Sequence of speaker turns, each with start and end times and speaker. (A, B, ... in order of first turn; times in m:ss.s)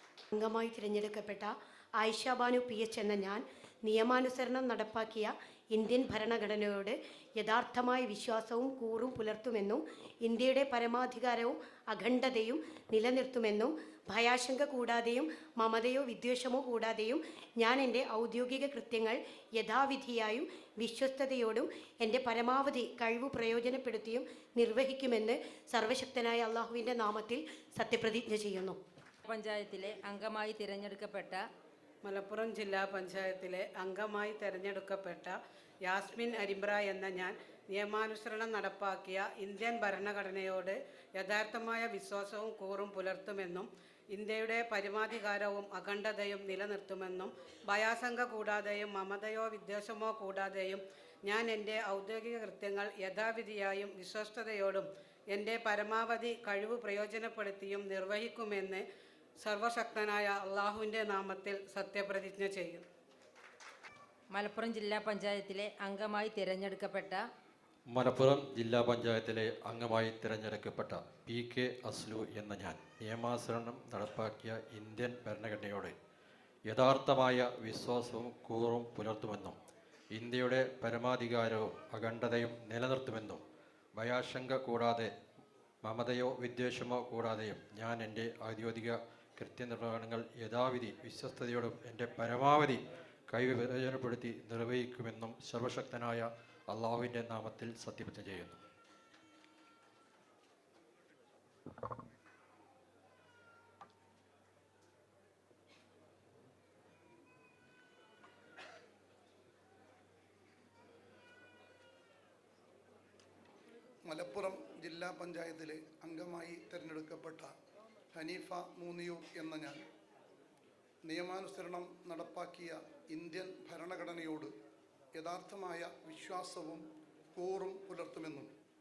0:00.3-0:28.8 A
0:29.2-0:31.4 B
0:32.0-0:58.8 C
0:59.4-1:02.8 C
1:04.3-1:07.2 B
1:07.9-1:16.0 D
1:16.7-1:19.6 D
1:20.1-1:23.4 D
1:24.0-1:25.1 D
1:25.8-1:38.6 D
1:54.1-1:57.5 E
1:58.1-1:59.8 E
2:01.0-2:04.5 E
2:05.1-2:06.8 E
2:07.3-2:08.5 E